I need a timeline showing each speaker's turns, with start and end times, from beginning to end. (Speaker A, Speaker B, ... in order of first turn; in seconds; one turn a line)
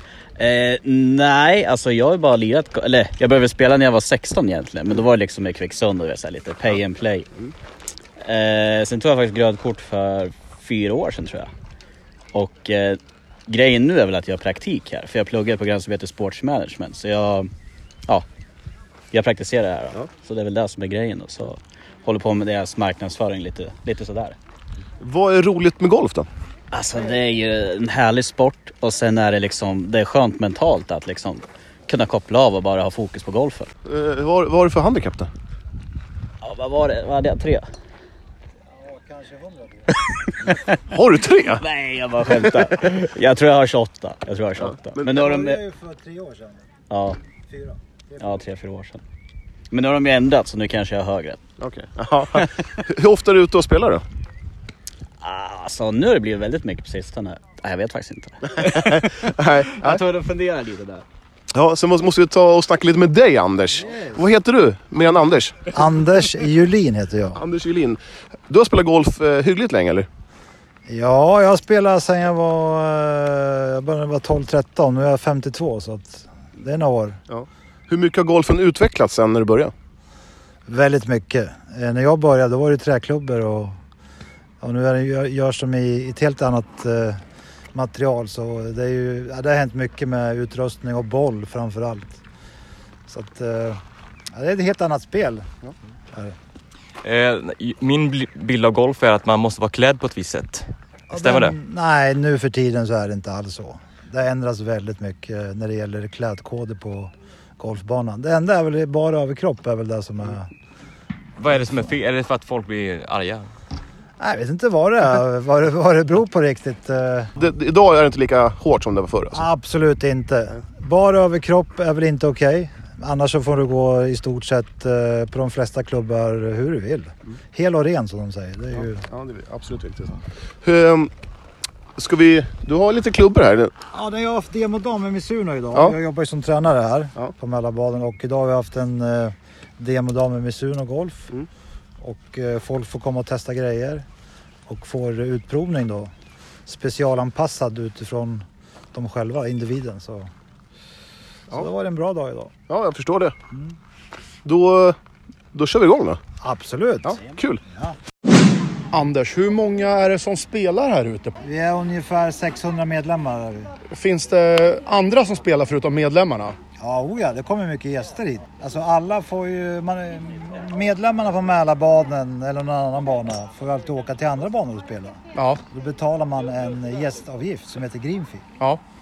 Speaker A: 0.4-7.3
Speaker A: 8.2-11.5
Speaker A: 12.3-17.5
Speaker A: 19.1-24.4
Speaker B: 25.0-26.3
Speaker A: 26.7-33.7
Speaker B: 33.9-35.3
Speaker A: 36.4-37.7
Speaker C: 38.7-40.0
Speaker B: 40.9-41.6
Speaker A: 41.6-45.6
Speaker B: 44.6-45.3
Speaker C: 45.0-46.7
Speaker A: 46.9-47.2
Speaker C: 47.5-48.3
Speaker A: 48.2-49.0
Speaker A: 49.7-51.4
Speaker B: 51.6-54.0
Speaker A: 52.3-52.6
Speaker A: 55.2-59.1
Speaker B: 58.6-60.0
Speaker A: 59.8-61.0
Speaker B: 61.5-65.8
Speaker C: 65.7-67.4
Speaker B: 67.3-70.1
Speaker C: 70.9-77.2
Speaker B: 77.3-79.7
Speaker C: 80.7-83.8
Speaker C: 84.6-87.2
Speaker C: 87.7-92.2
Speaker C: 93.1-93.8
Speaker C: 94.3-95.5
Speaker D: 97.0-101.5
Speaker C: 101.1-110.5
Speaker D: 111.4-113.5
Speaker C: 114.2-117.3
Speaker B: 117.4-119.4
Speaker C: 119.3-129.1
Speaker B: 128.8-131.1
Speaker B: 132.0-133.7
Speaker C: 133.9-141.3
Speaker C: 142.0-144.1
Speaker C: 144.7-146.1
Speaker C: 146.7-150.3
Speaker C: 151.5-152.5
Speaker B: 152.7-153.3
Speaker B: 154.4-155.0
Speaker B: 155.5-156.2
Speaker C: 156.4-157.2
Speaker B: 157.1-157.6
Speaker E: 158.9-161.4
Speaker C: 161.4-163.7
Speaker E: 163.9-166.6
Speaker C: 166.8-178.5
Speaker E: 175.4-175.6